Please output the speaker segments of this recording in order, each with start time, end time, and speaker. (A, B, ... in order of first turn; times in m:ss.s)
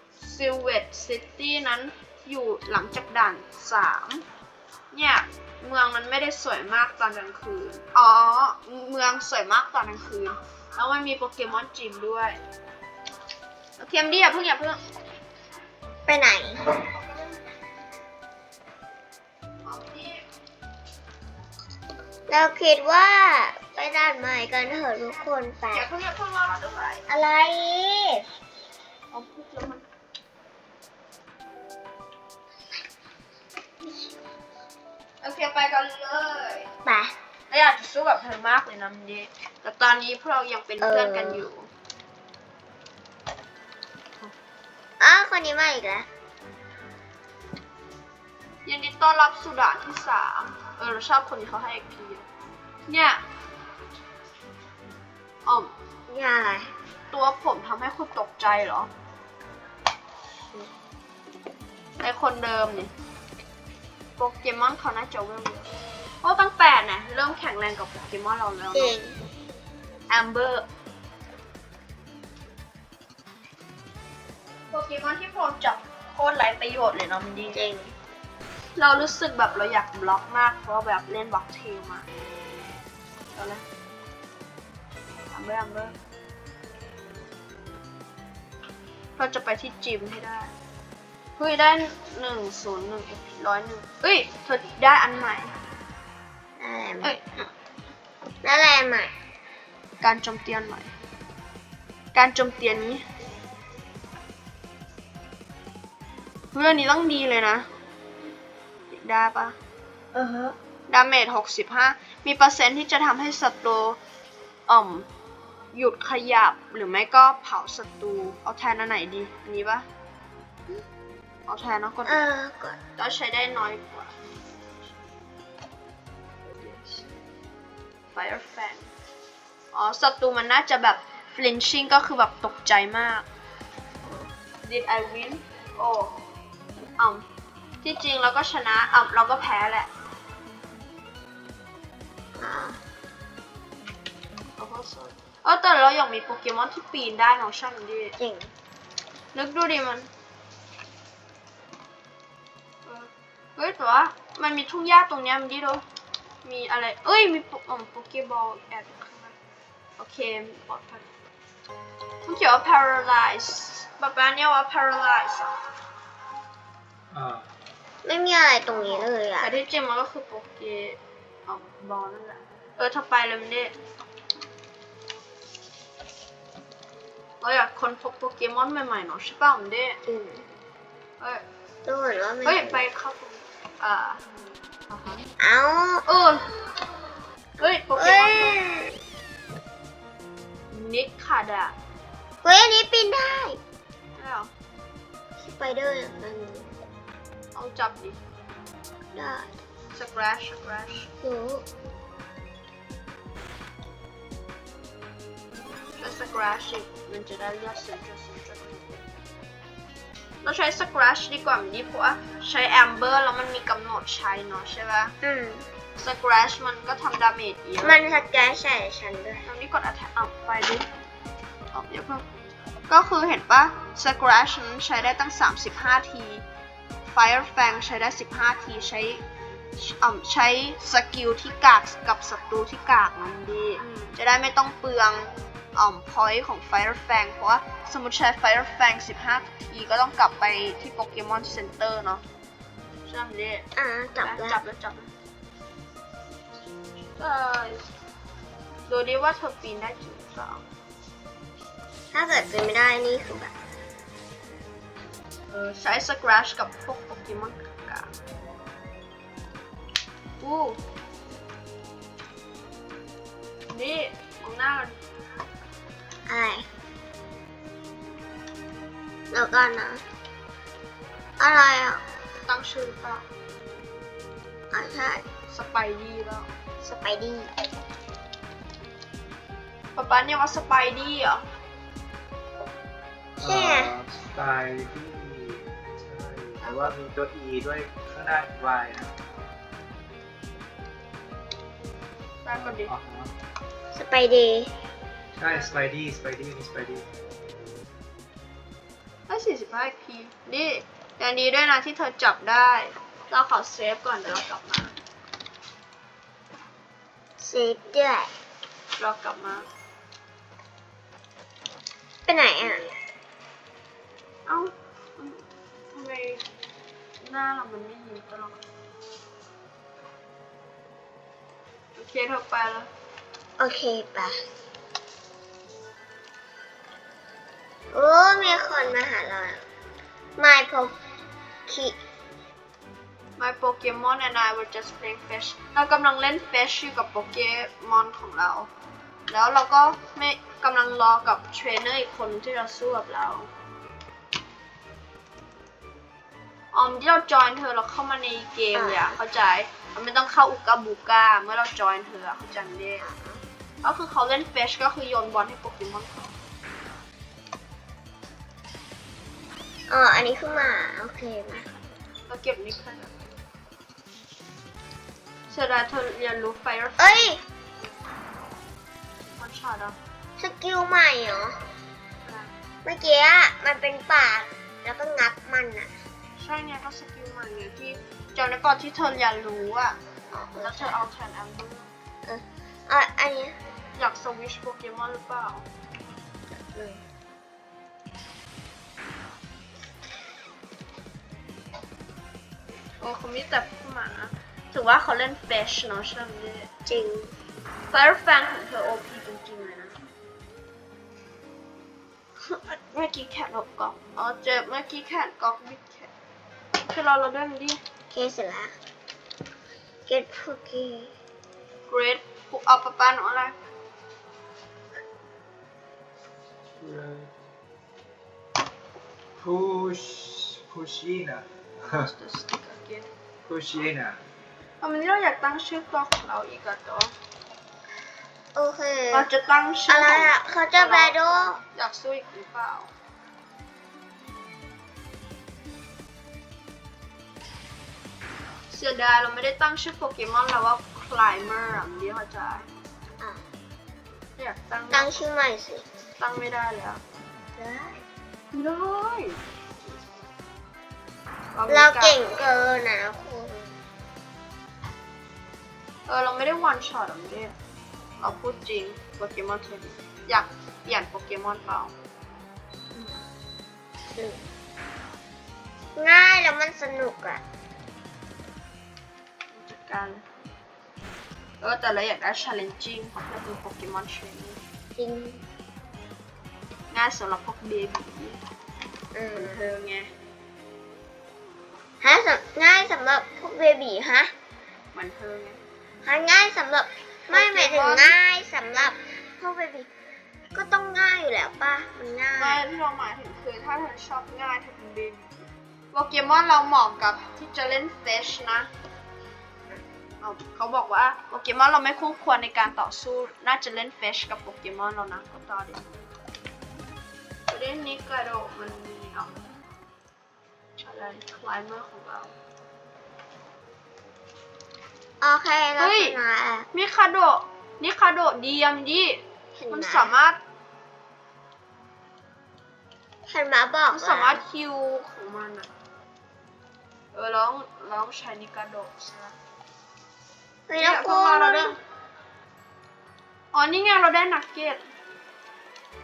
0:00.2-0:04.2 A
0:04.9-0:12.4 A
0:13.8-0:14.8 A
0:16.1-0:16.8 B
0:19.6-0:20.2 A
0:22.3-0:25.9 B
0:25.7-0:27.0 A
0:27.1-0:28.3 B
0:29.1-0:29.8 A
0:35.2-0:36.7 A
0:36.8-0:37.2 B
0:37.5-0:41.7 A
0:40.8-0:41.4 B
0:45.0-0:46.1 B
0:48.6-0:52.3 A
0:52.9-0:53.2 A
0:55.4-0:55.7 A
0:56.1-0:56.7 B
0:57.1-0:58.9 A
1:02.0-1:02.9 A
1:04.2-1:05.7 A
1:06.2-1:09.0 A
1:08.7-1:09.2 B
1:10.1-1:10.7 A
1:14.7-1:17.6 A
1:17.5-1:18.0 B
1:18.8-1:22.1 A
1:23.3-1:23.6 A
1:25.3-1:26.0 A
1:29.2-1:30.5 A
1:31.4-1:35.5 A
1:36.6-1:37.2 B
1:38.4-1:39.1 B
1:40.0-1:40.9 A
1:42.1-1:43.0 A
1:46.5-1:47.7 A
1:48.9-1:49.6 A
1:50.1-1:50.6 B
1:50.9-1:54.0 A
1:54.7-1:55.1 A
1:55.7-1:59.9 A
2:01.5-2:02.3 A
2:02.0-2:02.8 B
2:03.0-2:04.1 A
2:06.4-2:07.2 A
2:08.1-2:08.9 A
2:09.7-2:13.2 A
2:14.6-2:16.2 A
2:17.0-2:17.2 A
2:17.8-2:19.9 A
2:22.3-2:22.8 B
2:24.6-2:28.2 A
2:28.2-2:28.5 B
2:29.3-2:30.1 A
2:32.8-2:35.8 A
2:36.4-2:39.3 A
2:40.0-2:41.1 A
2:42.2-2:45.5 A
2:47.1-2:47.5 C
2:48.0-2:49.6 B
2:48.7-2:53.7 A
2:57.4-3:00.0 A
3:00.1-3:00.5 B
3:01.8-3:02.8 B
3:02.4-3:04.2 A
3:04.9-3:05.3 A
3:05.4-3:06.0 B
3:06.0-3:06.5 A
3:07.6-3:08.6 A
3:07.6-3:09.0 B
3:10.7-3:11.7 A
3:12.4-3:13.6 B
3:14.2-3:14.5 A
3:15.4-3:16.7 B
3:17.5-3:18.2 A
3:19.1-3:19.5 B
3:19.9-3:21.1 A
3:21.2-3:21.6 B
3:26.0-3:29.0 A
3:30.4-3:35.2 A
3:35.2-3:35.7 B
3:36.0-3:38.0 A
3:37.8-3:39.4 B
3:39.4-3:40.9 A
3:41.7-3:42.2 A
3:42.9-3:46.4 A
3:47.1-3:49.2 A
3:49.8-4:02.2 A
4:03.0-4:03.6 A
4:03.7-4:04.6 B
4:04.2-4:05.1 A
4:07.2-4:07.9 A
4:08.9-4:10.6 A
4:12.1-4:13.5 B
4:15.5-4:18.1 A
4:20.4-4:20.8 A
4:23.7-4:25.0 A
4:26.3-4:26.7 B
4:29.3-4:30.0 B
4:31.4-4:32.0 B
4:32.4-4:33.2 A
4:34.7-4:35.2 B
4:35.5-4:36.5 A
4:36.8-4:37.5 B
4:40.0-4:41.4 A
4:43.4-4:49.1 C
4:43.4-4:43.9 B
4:46.6-4:46.9 B
4:52.4-4:52.9 A
4:52.5-4:53.3 C
4:53.9-4:54.7 B
4:55.4-4:57.0 C
4:59.3-5:04.9 A
5:07.4-5:08.3 B
5:09.0-5:09.6 A
5:12.2-5:12.8 B
5:14.5-5:16.4 A
5:17.2-5:18.6 A
5:22.0-5:22.9 A
5:23.6-5:24.4 B
5:27.9-5:29.6 B
5:30.4-5:30.9 B
5:31.7-5:32.0 B
5:33.4-5:38.7 A
5:39.3-5:43.5 A
5:46.7-5:53.1 A
5:48.7-5:49.2 B
5:53.0-5:53.4 B
5:53.8-5:56.3 A
5:59.9-6:01.7 B
6:02.3-6:03.1 A
6:05.5-6:07.4 A
6:07.0-6:07.4 B
6:09.3-6:10.0 A
6:10.4-6:11.6 B
6:12.2-6:12.5 A
6:12.8-6:15.9 B
6:16.4-6:20.0 A
6:20.3-6:21.0 B
6:20.6-6:21.9 A
6:22.2-6:23.6 B
6:24.0-6:25.7 A
6:26.5-6:27.0 B
6:33.0-6:36.7 A
6:36.9-6:37.3 B
6:37.9-6:40.0 A
6:42.4-6:46.1 A
6:46.8-6:47.8 A
6:48.1-6:48.7 B
6:50.1-6:51.1 B
6:51.9-6:53.5 A
6:56.8-6:57.3 C
6:59.4-7:02.1 C
7:01.8-7:03.1 A
7:03.4-7:04.2 C
7:04.8-7:07.1 A
7:08.5-7:09.3 B
7:09.1-7:12.9 A
7:09.9-7:11.6 B
7:18.7-7:22.7 A
7:23.2-7:23.4 B
7:24.4-7:25.2 A
7:24.9-7:25.9 B
7:26.2-7:27.0 A
7:27.6-7:28.0 B
7:28.5-7:29.4 A
7:31.5-7:32.5 A
7:31.7-7:33.8 B
7:36.1-7:37.5 A
7:38.2-7:41.9 A
7:42.9-7:43.2 B
7:44.0-7:44.5 B
7:46.0-7:47.4 B
7:49.5-7:50.2 A
7:51.6-7:54.6 A
7:55.0-7:55.4 B
7:56.9-7:58.4 A
7:59.1-7:59.6 B
7:59.3-8:00.1 A
8:02.0-8:04.3 B
8:04.9-8:05.6 A
8:06.0-8:09.9 B
8:07.3-8:08.2 A
8:10.5-8:12.6 B
8:12.4-8:18.7 A
8:20.2-8:26.1 A
8:27.5-8:29.4 A
8:30.8-8:32.3 A
8:35.2-8:36.7 B
8:35.8-8:36.2 A
8:36.7-8:40.4 A
8:39.6-8:40.1 B
8:43.3-8:44.4 B
8:43.9-8:45.7 A
8:47.1-8:49.3 A
8:50.7-8:51.7 B
8:50.7-8:51.7 A
8:53.5-8:54.9 A